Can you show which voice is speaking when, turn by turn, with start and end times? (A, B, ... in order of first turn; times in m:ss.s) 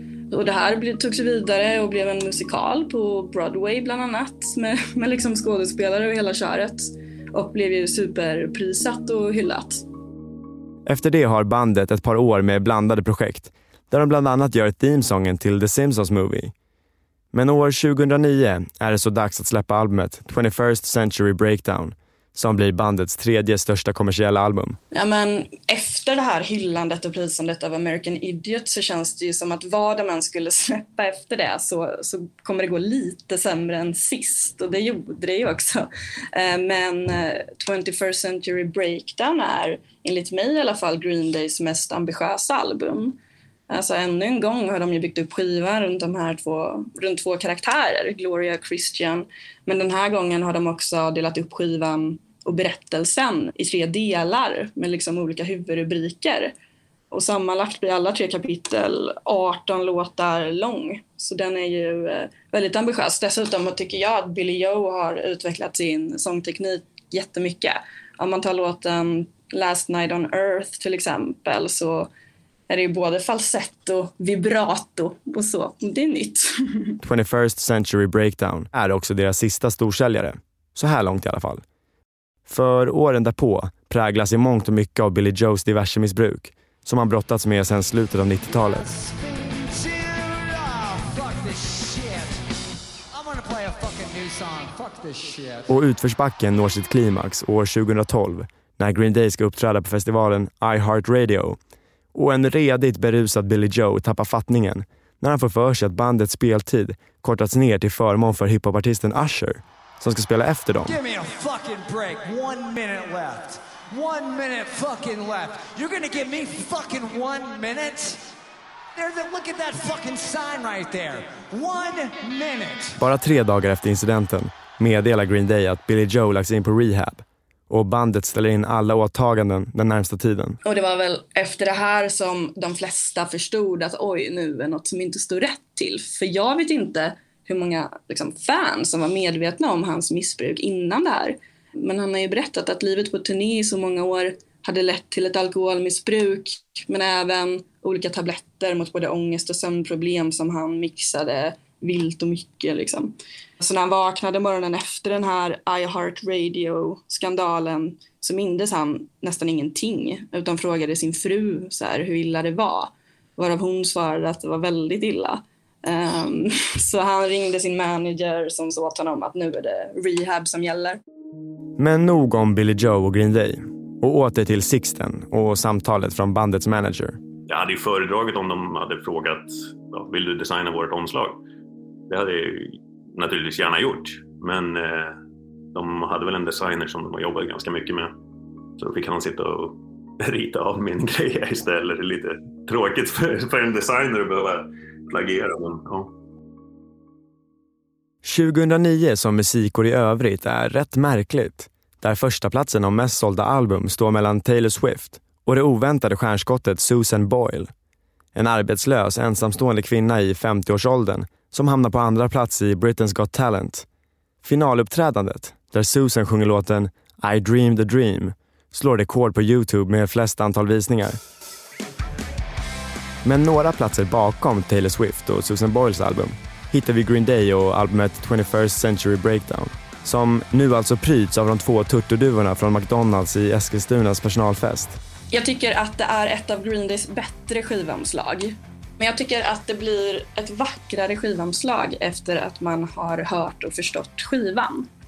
0:00.3-0:09.8 A
0:10.9-0:16.5 B
0:17.3-0:24.8 B
0:24.9-0:43.2 A
0:43.7-0:56.5 A
0:57.1-1:12.1 A
1:12.7-1:16.9 A
1:17.0-1:21.6 B
1:22.5-1:28.8 B
1:28.5-1:32.4 C
1:33.1-1:35.7 C
1:35.7-1:41.6 B
1:42.1-1:50.9 B
1:50.8-1:58.3 C
1:59.0-2:03.0 C
2:03.0-2:10.6 B
2:10.6-2:51.0 A
2:51.8-2:57.2 B
2:57.5-3:01.4 D
3:02.1-3:05.2 D
3:05.7-3:08.1 D
3:08.8-3:16.1 D
3:18.2-3:27.7 B
3:28.3-3:33.8 B
3:34.4-3:41.2 B
3:43.2-3:55.0 B
3:55.3-4:04.9 A